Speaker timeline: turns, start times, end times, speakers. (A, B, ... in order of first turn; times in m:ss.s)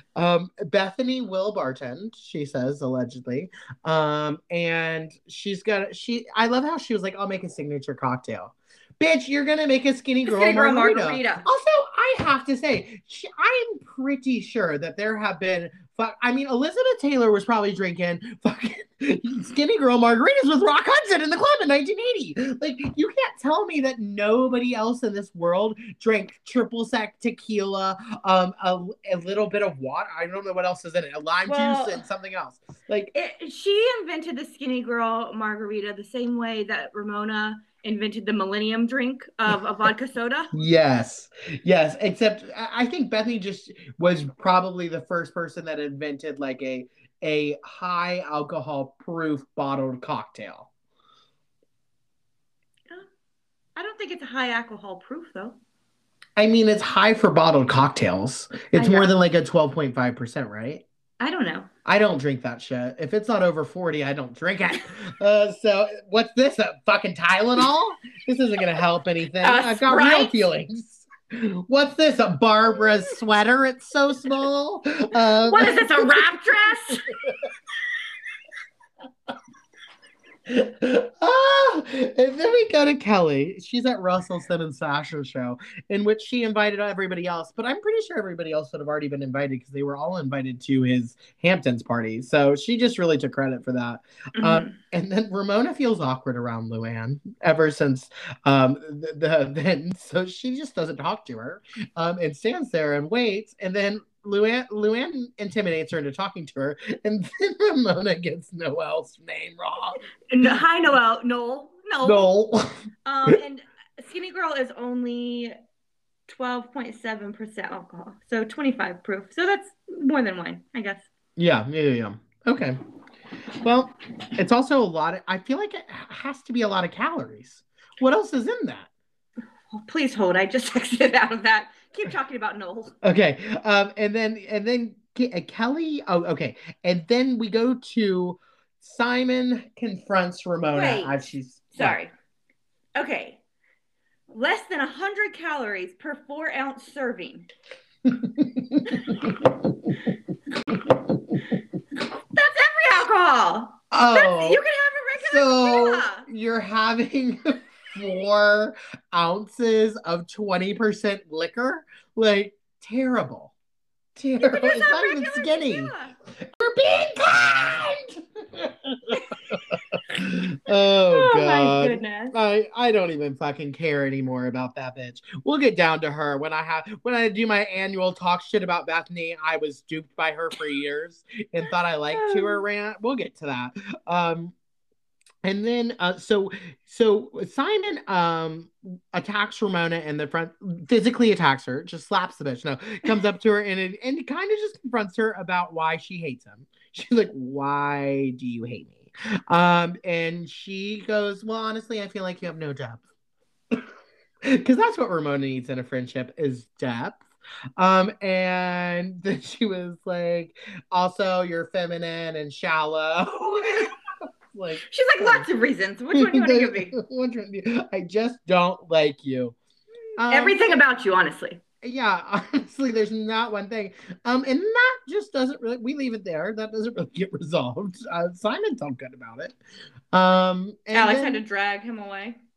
0:00.2-0:33.1 A
0:10.2-0:11.4 B
0:31.4-0:32.0 B
0:33.1-0:40.5 B
0:40.5-0:50.7 A
0:53.8-0:55.6 B
0:56.4-1:00.8 A
0:58.7-0:59.1 B
1:01.2-1:01.7 B
1:01.8-1:16.3 A
1:09.4-1:10.4 B
1:15.4-1:17.1 B
1:16.9-1:17.4 A
1:20.5-1:50.0 A
1:34.4-1:34.8 B
1:50.3-1:52.3 B
1:52.0-1:53.4 A
1:53.0-1:55.5 B
1:56.3-2:01.0 B
2:01.4-2:02.8 A
2:03.6-2:08.9 A
2:09.7-2:12.9 B
2:13.0-2:22.0 A
2:20.7-2:21.2 B
2:21.7-2:22.1 B
2:23.0-2:23.4 B
2:24.3-2:27.5 B
2:28.0-2:29.9 A
2:30.7-2:31.1 A
2:32.1-2:36.2 B
2:33.9-2:34.6 A
2:35.2-2:43.5 A
2:44.2-3:04.5 A
2:44.4-2:46.1 B
2:51.1-2:52.4 B
3:02.1-3:02.6 B
3:05.4-3:23.0 A
3:24.4-3:27.2 A
3:27.8-3:33.9 A
3:34.5-3:35.5 A
3:34.8-3:37.0 B
3:36.1-3:39.6 A
3:40.2-3:40.7 A
3:40.2-3:41.6 B
3:41.8-3:49.6 A
3:50.1-3:51.4 A
3:50.9-3:52.4 B